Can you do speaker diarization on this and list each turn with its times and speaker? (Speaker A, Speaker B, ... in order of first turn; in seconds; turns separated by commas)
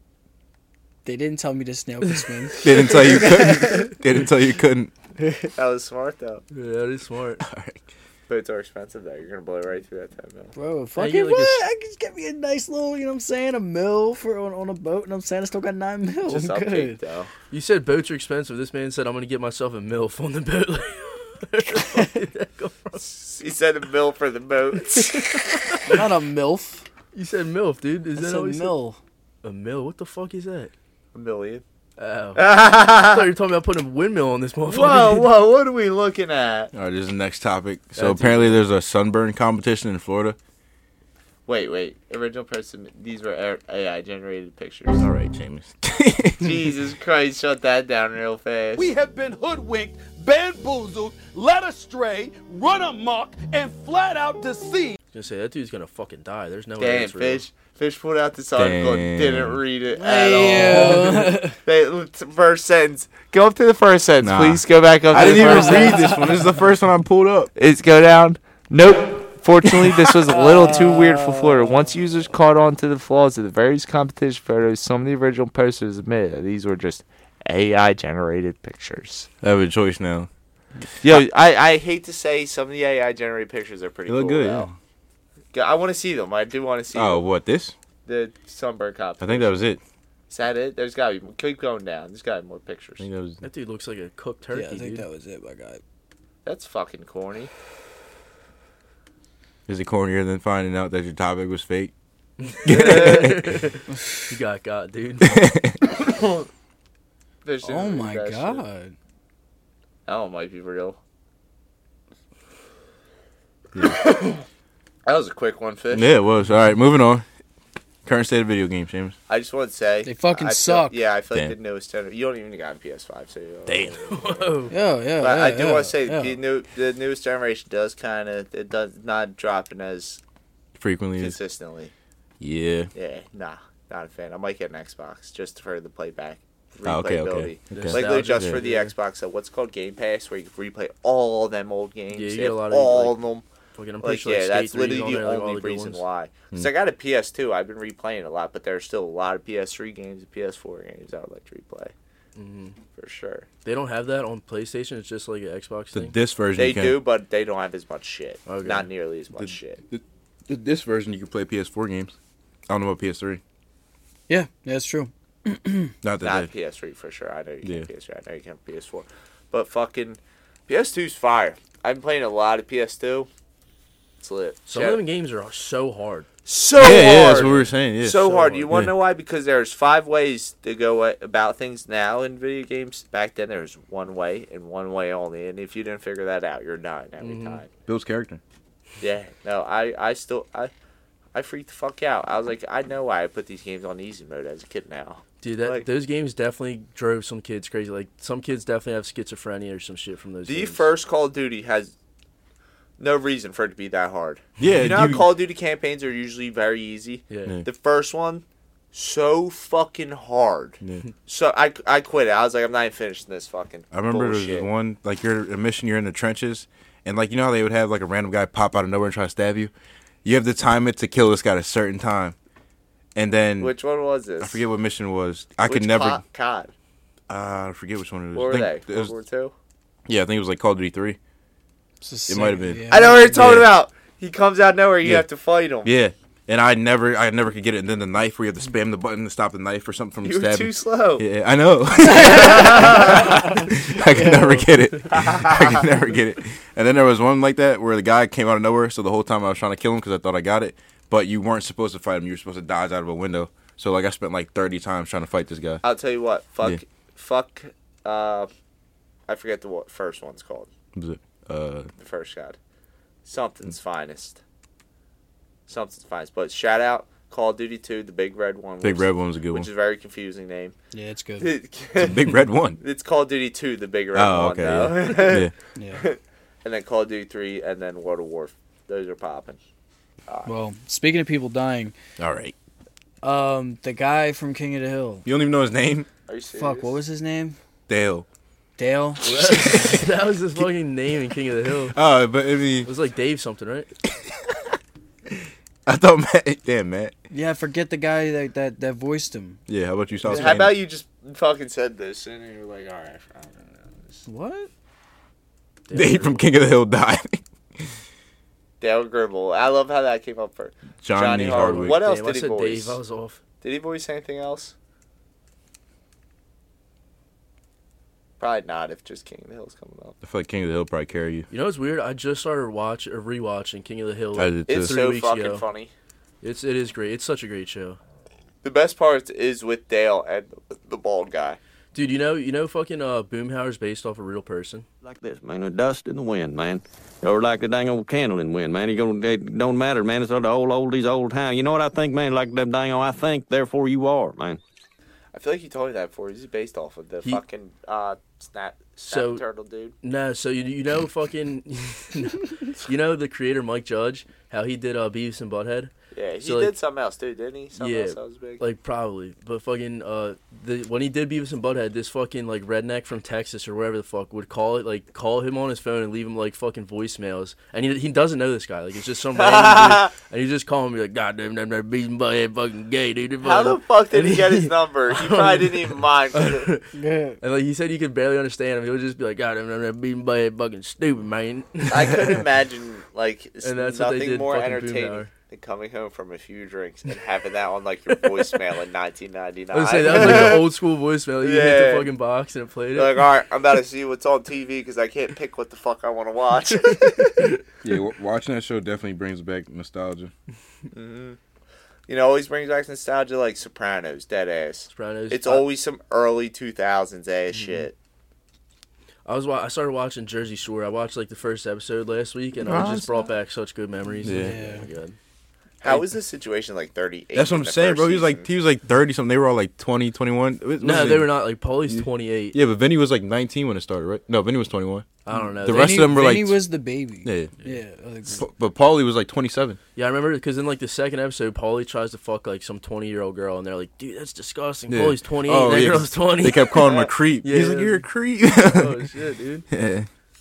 Speaker A: 1.1-4.0, Speaker B: 2.6-4.9, Speaker A: 5.2-5.5, Speaker C: 5.5-6.4, Speaker D: 6.5-7.4, Speaker B: 7.4-7.8, Speaker C: 8.3-10.5, Speaker A: 10.6-17.0, Speaker D: 11.0-11.6, Speaker C: 16.2-17.3, Speaker D: 17.5-23.0, Speaker A: 21.8-22.0, Speaker C: 23.0-25.8, Speaker D: 24.9-26.0, Speaker A: 25.9-26.8, Speaker D: 27.1-28.8, Speaker A: 28.1-29.0, Speaker D: 29.4-30.7, Speaker C: 31.1-31.6, Speaker D: 32.0-35.3, Speaker C: 32.4-33.3, Speaker C: 34.7-36.7, Speaker B: 36.7-40.4, Speaker D: 38.0-38.6, Speaker C: 41.5-45.1, Speaker B: 45.0-46.7, Speaker C: 46.4-48.9, Speaker E: 48.8-55.0, Speaker D: 55.1-57.4, Speaker C: 56.8-66.4, Speaker B: 58.5-59.6, Speaker A: 59.9-61.6, Speaker D: 60.4-61.4, Speaker B: 64.2-67.5, Speaker D: 65.2-65.5, Speaker A: 65.7-66.2, Speaker C: 67.5-79.3, Speaker B: 69.7-70.0, Speaker A: 70.3-71.9, Speaker B: 79.4-80.3, Speaker C: 81.0-84.7, Speaker B: 84.1-84.8, Speaker C: 85.5-87.2, Speaker B: 86.9-87.7, Speaker C: 88.1-89.5, Speaker B: 89.2-89.8, Speaker C: 90.3-93.1, Speaker B: 93.0-93.4, Speaker D: 93.4-95.0, Speaker A: 94.5-95.8, Speaker C: 96.5-97.5, Speaker B: 99.7-101.9, Speaker D: 102.4-105.5, Speaker B: 102.6-103.6, Speaker C: 102.7-103.2, Speaker B: 105.2-105.8, Speaker C: 106.0-106.5, Speaker C: 107.4-108.6, Speaker A: 107.6-108.9, Speaker C: 110.1-111.0, Speaker B: 113.8-114.0, Speaker C: 115.0-116.1, Speaker B: 115.9-117.2, Speaker B: 118.0-119.2, Speaker C: 119.3-124.5, Speaker A: 120.0-121.0, Speaker B: 123.7-124.0, Speaker D: 124.1-124.7, Speaker A: 124.7-126.4, Speaker C: 125.2-130.2, Speaker B: 130.8-131.4, Speaker C: 131.2-131.9, Speaker B: 132.4-132.9, Speaker C: 132.9-143.4, Speaker B: 136.8-138.6, Speaker D: 137.7-138.9, Speaker D: 142.1-143.2, Speaker D: 143.8-146.0, Speaker C: 144.0-151.9, Speaker D: 152.4-152.8, Speaker C: 153.0-153.5, Speaker D: 153.6-156.1, Speaker B: 155.9-157.0, Speaker C: 156.6-159.8, Speaker D: 158.5-158.9, Speaker B: 159.3-162.2, Speaker B: 162.7-163.4, Speaker A: 164.3-165.9, Speaker B: 166.0-166.5, Speaker C: 166.2-173.3, Speaker C: 174.2-175.0, Speaker D: 174.7-176.3, Speaker C: 176.5-187.7, Speaker B: 176.8-178.9, Speaker D: 178.2-178.7, Speaker D: 187.2-187.6, Speaker B: 187.9-188.4, Speaker C: 189.0-190.7, Speaker C: 191.3-195.9, Speaker D: 195.4-200.9, Speaker C: 200.5-201.9, Speaker C: 203.0-214.7, Speaker B: 204.6-205.3, Speaker D: 207.3-207.6, Speaker B: 213.9-219.7, Speaker B: 220.2-222.3, Speaker B: 223.2-223.8, Speaker C: 223.6-224.6, Speaker B: 224.4-226.2, Speaker C: 225.7-226.7, Speaker B: 227.3-229.1, Speaker C: 228.3-229.5, Speaker B: 230.1-231.2, Speaker A: 232.0-233.4, Speaker B: 232.3-233.7, Speaker C: 232.9-235.9, Speaker B: 235.8-255.8, Speaker C: 240.2-241.2, Speaker C: 242.1-243.4, Speaker A: 242.5-244.7, Speaker C: 245.1-245.9, Speaker C: 255.8-258.5, Speaker C: 259.3-260.7, Speaker B: 260.9-261.9, Speaker C: 262.0-262.6, Speaker C: 263.2-264.4, Speaker C: 265.7-270.7, Speaker B: 268.8-269.7, Speaker A: 270.9-271.5, Speaker C: 271.4-279.6, Speaker B: 272.0-272.8, Speaker B: 274.1-275.5, Speaker A: 275.8-276.0, Speaker A: 280.5-281.9, Speaker B: 282.2-282.6, Speaker A: 283.2-285.3, Speaker B: 285.2-286.1, Speaker C: 286.3-287.0, Speaker A: 286.6-287.6, Speaker B: 287.9-288.3, Speaker A: 288.8-289.2, Speaker D: 289.2-292.0, Speaker B: 289.3-290.6, Speaker B: 291.9-292.9, Speaker D: 292.9-293.9, Speaker B: 295.9-297.1, Speaker A: 297.3-299.6, Speaker B: 299.7-300.8, Speaker C: 300.2-304.2, Speaker A: 304.3-304.7, Speaker D: 305.9-306.4, Speaker B: 305.9-307.9, Speaker C: 308.8-313.0, Speaker B: 311.0-312.0, Speaker D: 311.5-313.4, Speaker C: 313.6-314.7, Speaker C: 318.4-320.2, Speaker B: 320.2-321.5, Speaker D: 321.5-325.6, Speaker B: 324.4-325.0, Speaker C: 324.7-325.9, Speaker D: 326.4-328.0, Speaker C: 328.6-331.6, Speaker D: 331.9-334.9, Speaker F: 335.0-344.6, Speaker C: 345.3-349.9, Speaker D: 349.1-349.4, Speaker D: 350.0-356.7, Speaker C: 356.1-358.6, Speaker D: 357.8-382.4, Speaker C: 369.4-370.1, Speaker C: 373.4-376.7, Speaker A: 376.9-377.4, Speaker C: 381.9-390.7, Speaker D: 383.6-385.3, Speaker D: 389.7-393.2, Speaker C: 391.4-392.1, Speaker C: 392.9-397.5, Speaker D: 396.9-397.6, Speaker B: 397.8-400.3, Speaker C: 400.9-401.4, Speaker C: 402.1-407.9, Speaker D: 404.9-405.7, Speaker D: 407.6-407.8, Speaker D: 409.3-415.2, Speaker C: 412.7-413.1, Speaker B: 412.7-413.1, Speaker B: 414.2-414.6, Speaker A: 414.3-414.9, Speaker C: 415.8-418.5, Speaker B: 417.3-421.4, Speaker D: 420.8-422.6, Speaker B: 421.9-425.1, Speaker D: 425.2-426.1, Speaker A: 425.3-428.4, Speaker B: 425.6-426.7, Speaker B: 427.2-427.5, Speaker B: 428.3-429.8, Speaker D: 429.9-439.7, Speaker B: 434.9-439.1, Speaker C: 436.8-437.1, Speaker B: 439.7-440.1